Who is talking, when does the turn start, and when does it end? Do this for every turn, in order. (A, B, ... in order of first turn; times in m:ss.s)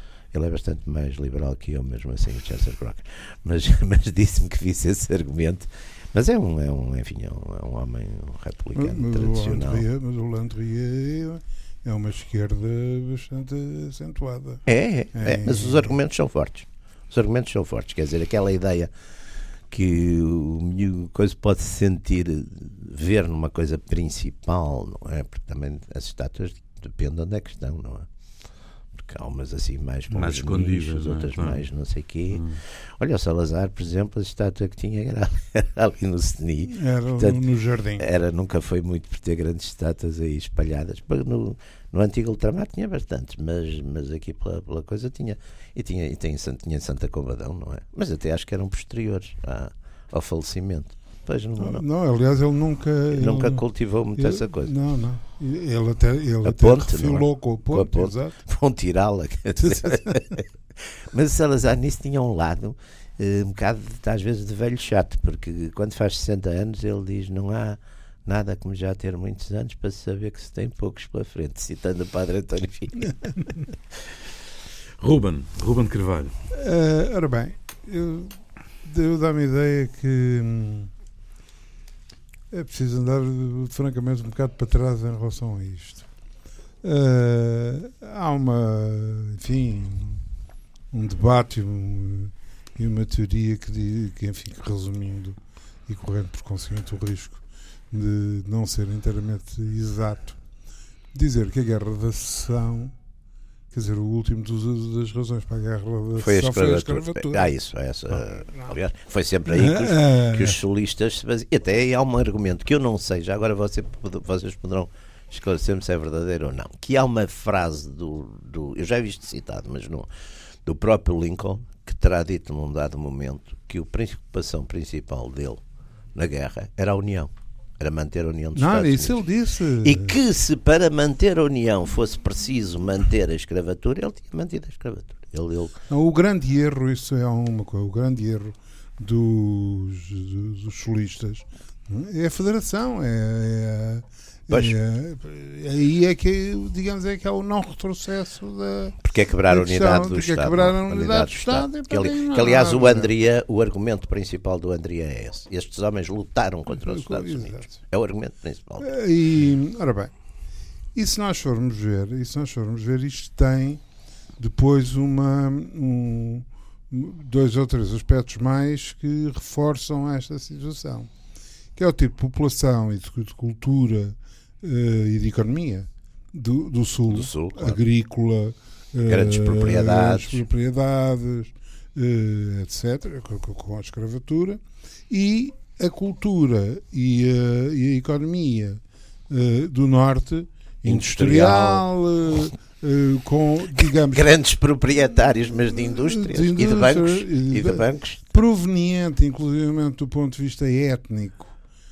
0:00.3-0:09.8 A
0:08.7-0:14.6 B
0:14.6-0:18.9 A
0:15.1-0:16.0 B
0:19.7-0:28.1 A
0:29.0-0:37.4 A
0:30.1-0:31.6 C
0:32.3-0:32.6 C
0:36.7-0:38.0 B
0:38.0-0:51.8 A
0:51.6-0:53.6 B
0:53.1-0:54.7 A
0:54.2-0:58.4 B
0:56.4-1:00.5 A
0:59.6-1:00.2 B
1:01.1-1:13.1 A
1:15.0-1:16.3 C
1:16.5-1:20.9 B
1:22.5-1:26.0 B
1:26.8-1:30.2 B
1:30.9-1:40.4 B
1:41.1-1:42.9 B
1:43.7-1:47.5 B
1:46.2-2:00.1 A
1:48.1-1:48.7 B
1:49.5-1:50.6 B
2:00.6-2:05.6 A
2:06.1-2:09.2 A
2:08.5-2:10.2 B
2:09.8-2:15.8 A
2:15.9-2:29.0 B
2:24.5-2:24.8 A
2:29.0-2:38.9 A
2:29.5-2:33.1 B
2:36.7-2:37.8 B
2:38.8-2:40.1 B
2:40.9-2:43.8 B
2:44.4-2:51.1 B
2:51.7-3:14.3 B
2:57.1-2:57.8 A
2:59.1-3:00.4 A
3:10.8-3:11.9 A
3:14.1-3:18.2 A
3:15.7-3:21.5 B